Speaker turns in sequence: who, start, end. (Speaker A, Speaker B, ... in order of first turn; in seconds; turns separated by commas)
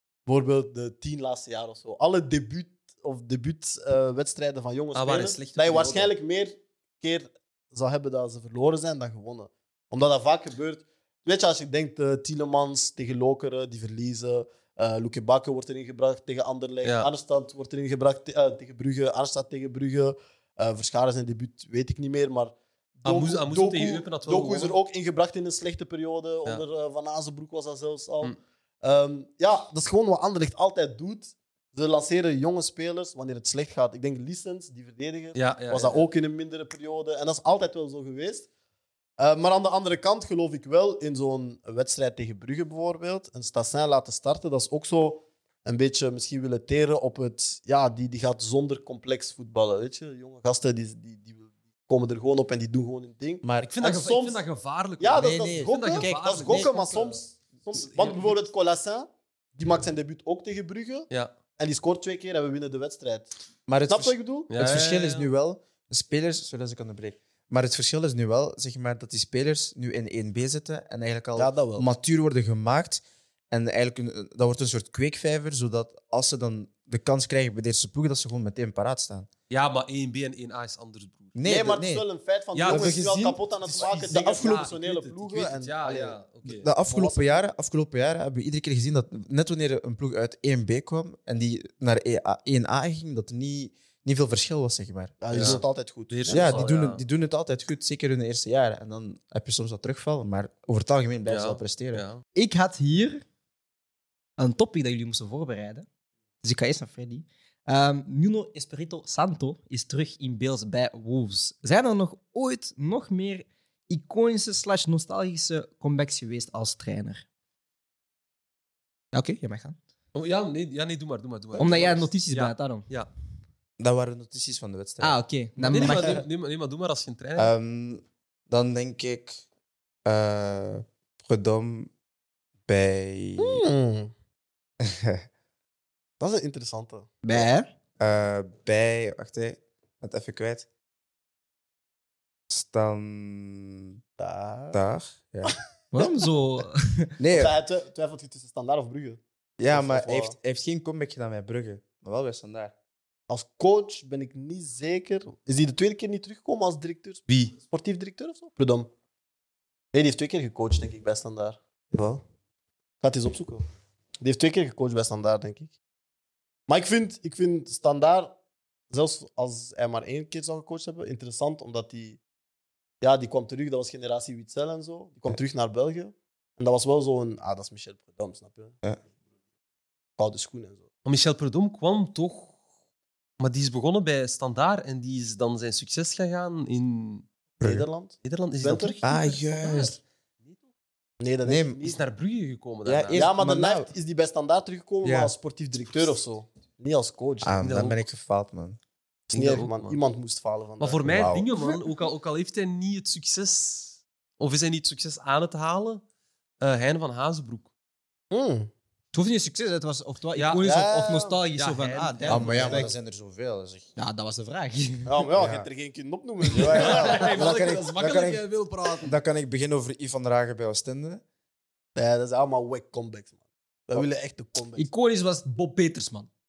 Speaker A: 0.2-38.5, Speaker B: 4.9-6.1, Speaker B: 16.8-17.1, Speaker B: 23.0-24.8, Speaker B: 35.3-36.1, Speaker A: 39.2-54.4, Speaker C: 53.4-53.8, Speaker B: 53.7-57.0, Speaker A: 55.0-63.3, Speaker C: 55.1-57.1, Speaker B: 57.7-58.4, Speaker C: 63.7-79.3, Speaker A: 63.9-64.9, Speaker B: 64.5-65.3, Speaker A: 71.3-71.9, Speaker B: 79.5-81.3, Speaker C: 81.3-82.0, Speaker A: 81.4-86.2, Speaker B: 82.5-86.7, Speaker C: 82.6-83.4, Speaker C: 86.5-95.6, Speaker A: 86.8-87.4, Speaker A: 95.2-96.7, Speaker B: 95.3-97.0, Speaker C: 96.3-102.0, Speaker B: 101.2-102.2, Speaker D: 102.3-103.2, Speaker D: 104.4-105.8, Speaker D: 106.4-117.2, Speaker D: 119.1-119.8, Speaker B: 120.1-123.1, Speaker D: 121.6-122.9, Speaker C: 123.8-125.2, Speaker D: 125.0-126.2, Speaker B: 125.7-127.5, Speaker C: 127.3-129.4, Speaker C: 130.0-131.9, Speaker C: 132.7-133.6, Speaker A: 133.4-134.1, Speaker C: 134.8-135.2, Speaker A: 136.2-137.4, Speaker D: 137.2-137.7, Speaker C: 138.0-140.7, Speaker C: 142.5-144.0, Speaker A: 144.2-144.8, Speaker C: 144.7-145.5, Speaker A: 145.4-146.1, Speaker D: 145.9-147.2, Speaker C: 147.2-147.5, Speaker A: 147.3-150.3, Speaker C: 149.6-152.7, Speaker A: 153.3-158.9, Speaker B: 157.3-157.5, Speaker A: 159.9-162.2, Speaker A: 163.0-163.6, Speaker A: 164.2-165.7, Speaker A: 166.7-168.3, Speaker A: 168.9-172.2, Speaker A: 173.0-178.8, Speaker A: 180.2-180.9, Speaker B: 181.0-182.5, Speaker B: 183.4-187.2, Speaker C: 187.6-187.8, Speaker A: 187.6-189.0, Speaker B: 188.2-189.9, Speaker C: 189.0-190.0, Speaker A: 191.2-192.0, Speaker C: 191.4-191.8, Speaker B: 191.8-193.3, Speaker C: 192.8-193.9, Speaker A: 193.1-197.6, Speaker C: 195.0-195.3, Speaker C: 197.4-198.8, Speaker B: 197.6-198.0, Speaker B: 199.3-200.0, Speaker A: 199.3-201.1, Speaker B: 200.8-206.0, Speaker C: 201.0-201.5, Speaker B: 206.6-207.7, Speaker A: 208.3-208.7, Speaker D: 209.1-212.9, Speaker B: 210.3-210.7, Speaker A: 210.6-211.4, Speaker B: 211.6-212.7, Speaker C: 212.3-213.9, Speaker A: 212.5-212.9, Speaker D: 213.9-215.2, Speaker A: 215.1-217.8, Speaker C: 215.4-215.7, Speaker B: 216.5-219.2, Speaker C: 216.5-218.4, Speaker C: 219.0-221.2, Speaker A: 221.9-223.3, Speaker A: 223.9-224.9, Speaker D: 224.8-226.3